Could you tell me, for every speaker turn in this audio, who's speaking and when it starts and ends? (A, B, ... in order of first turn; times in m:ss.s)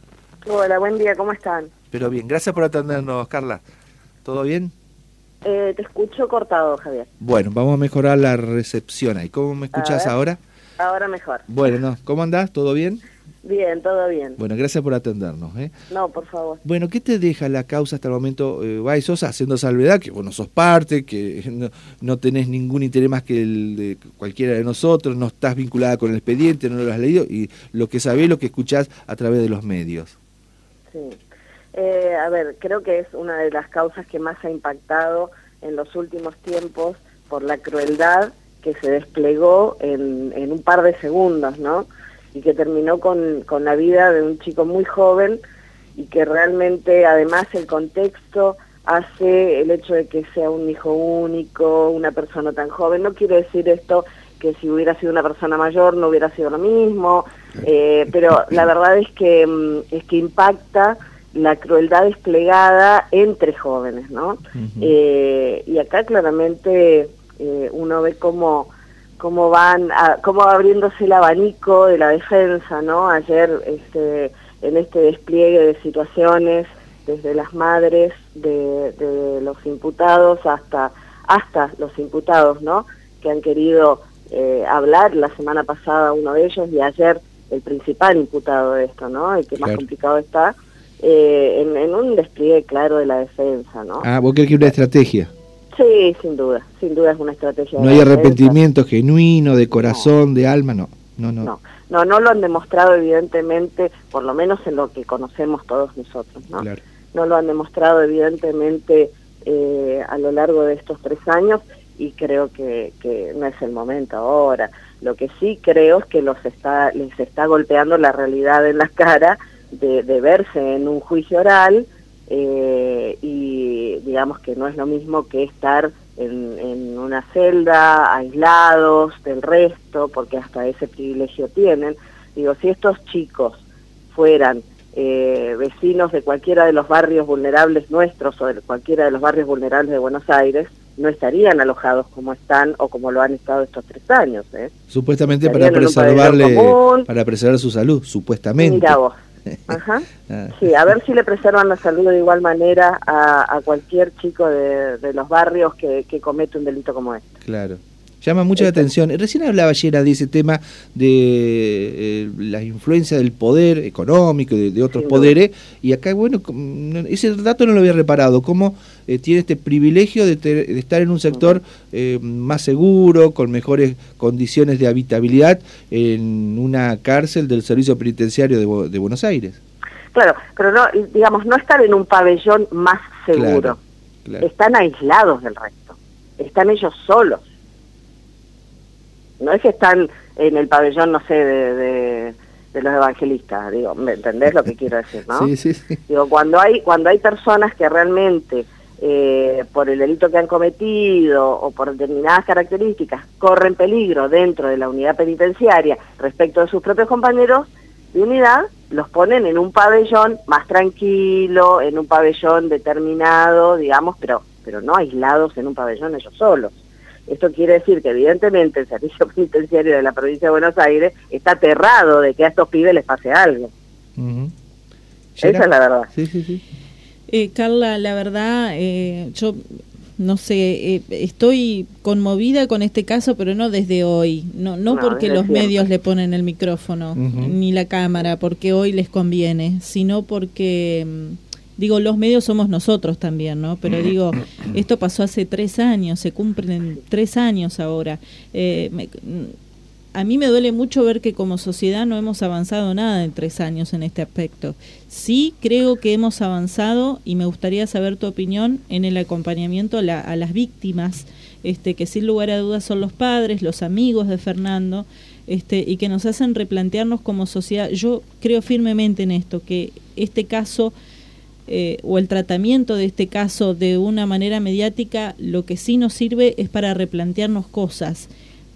0:00.4-0:01.7 A
0:01.9-0:03.6 B
0:04.2-0:04.7 B
0:05.4-0:07.1 A
0:07.2-0:10.4 B
0:09.7-0:10.1 A
0:10.8-0:11.5 A
0:11.5-0:13.0 B
0:13.4-0:14.4 A
0:14.4-0:15.7 B
0:15.9-0:16.6 A
0:16.6-0:30.2 B
0:30.9-0:31.2 A
0:31.7-0:45.4 A
0:46.0-1:34.1 A
1:04.6-1:04.9 B
1:29.6-1:29.8 B
1:34.0-1:35.3 B
1:35.7-1:38.6 A
1:37.8-1:41.5 B
1:39.8-1:40.1 A
1:41.4-2:24.7 A
1:46.6-1:46.8 B
2:24.9-2:29.0 B
2:25.4-2:27.1 A
2:28.6-2:29.2 A
2:29.7-2:37.3 A
2:30.3-2:30.6 B
2:37.4-2:59.6 B
2:38.6-2:38.9 A
2:44.9-2:45.4 A
2:51.3-2:51.6 A
3:00.1-3:03.8 A
3:03.3-3:04.5 B
3:04.4-3:07.4 A
3:09.4-3:15.5 A
3:15.3-3:16.0 B
3:16.1-3:43.7 A
3:44.2-3:44.5 B
3:45.4-3:46.6 B
3:45.4-3:46.1 A
3:47.3-3:49.6 C
3:50.2-4:09.5 C
3:54.9-3:55.8 A
3:57.2-3:57.6 B
4:10.1-4:30.9 C
4:31.7-4:38.3 C